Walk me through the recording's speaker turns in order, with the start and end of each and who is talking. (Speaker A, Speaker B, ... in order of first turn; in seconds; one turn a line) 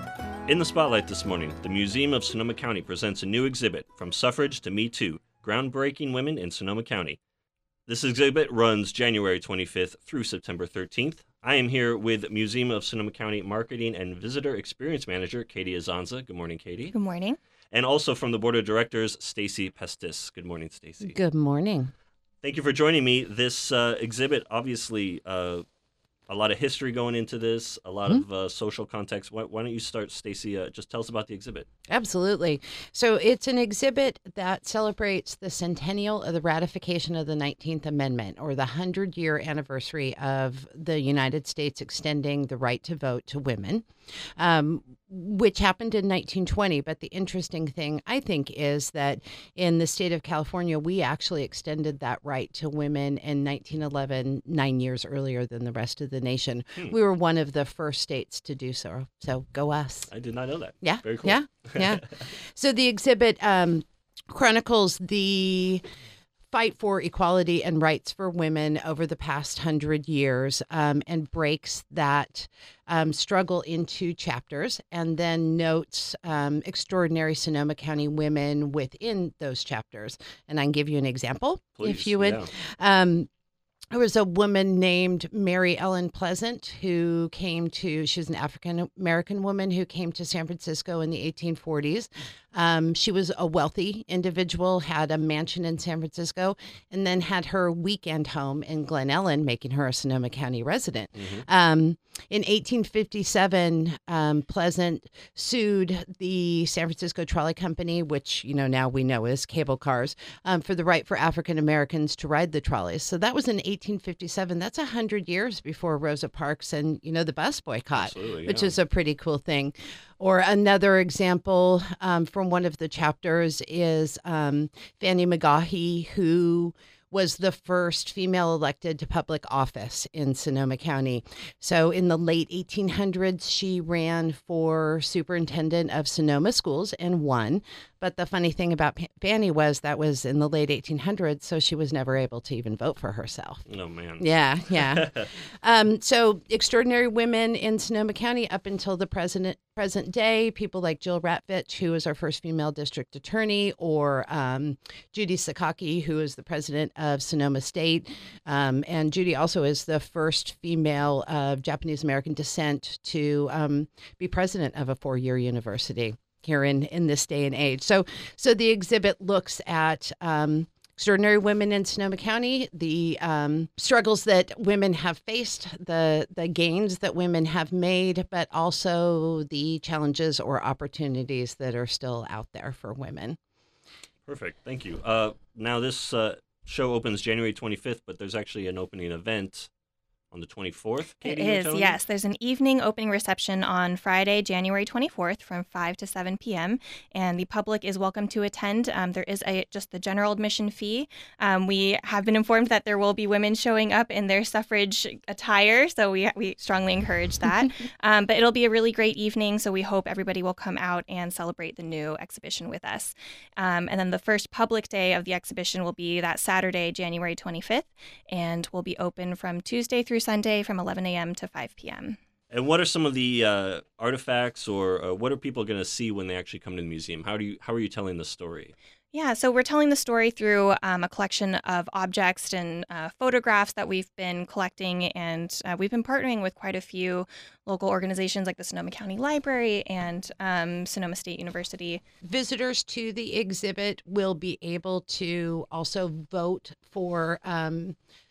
Speaker A: 0.5-7.2
Speaker A: 7.9-16.9
Speaker B: 16.9-17.4
Speaker A: 17.7-21.2
Speaker C: 21.0-21.9
Speaker A: 22.4-25.6
Speaker A: 26.3-31.7
Speaker C: 31.9-43.9
Speaker C: 44.4-60.1
Speaker A: 60.1-61.9
Speaker C: 60.8-65.8
Speaker C: 66.5-83.3
Speaker A: 81.8-82.5
Speaker C: 83.9-143.7
Speaker A: 101.2-101.5
Speaker A: 117.9-118.7
Speaker A: 143.7-145.3
Speaker C: 144.2-183.4
Speaker A: 184.2-189.7
Speaker A: 190.3-192.0
Speaker B: 191.2-222.2
Speaker A: 222.5-228.7
Speaker B: 229.1-242.0
Speaker C: 242.2-248.0